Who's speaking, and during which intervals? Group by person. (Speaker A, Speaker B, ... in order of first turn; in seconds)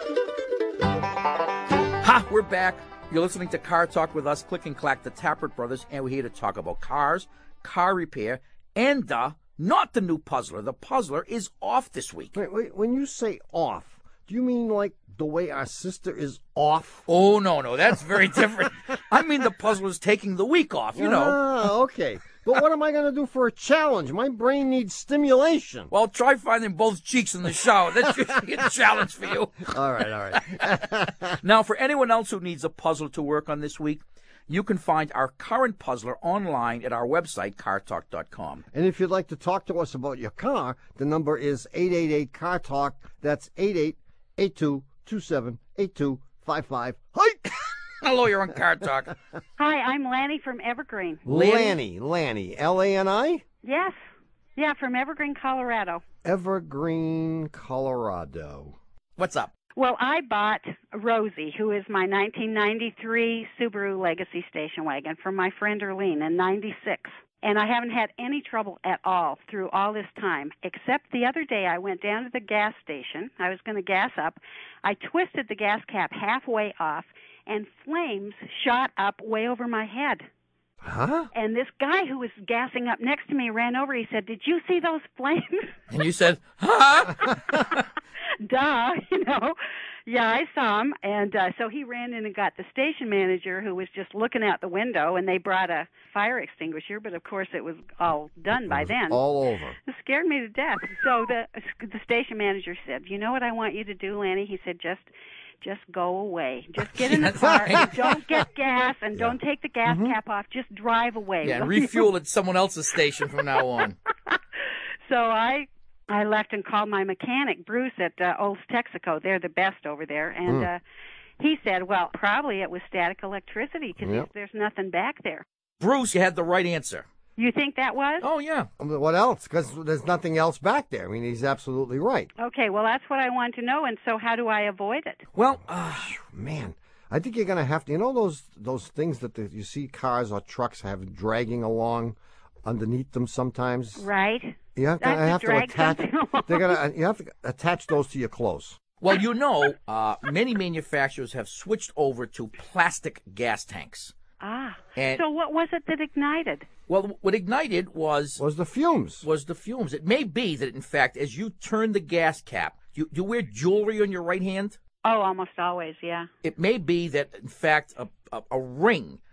Speaker A: 2.0-12.3, 17.1-21.4, 25.9-29.8, 31.4-38.6, 48.0-49.1, 51.3-51.8, 59.2-59.5, 85.9-87.8, 107.0-107.9, 111.4-114.0, 125.8-127.0, 128.2-128.7, 135.3-136.1, 149.0-154.1, 154.9-155.2, 156.9-158.4, 159.2-164.8, 166.4-169.2
Speaker B: 12.3-17.0, 20.9-25.9, 29.7-31.4, 38.7-47.7, 51.2-53.4, 56.2-58.8, 80.8-81.3, 98.5-99.8, 109.2-110.1, 124.0-124.3, 128.8-132.3, 135.8-144.1, 144.7-148.8, 158.4-159.2
Speaker C: 49.6-51.2, 53.6-54.0, 54.5-56.0, 59.8-80.3, 81.3-85.7, 88.4-99.2, 99.8-112.1, 115.0-120.8, 121.4-125.4, 127.4-128.2, 132.4-135.2, 144.0-146.8, 154.4-156.7, 165.0-166.3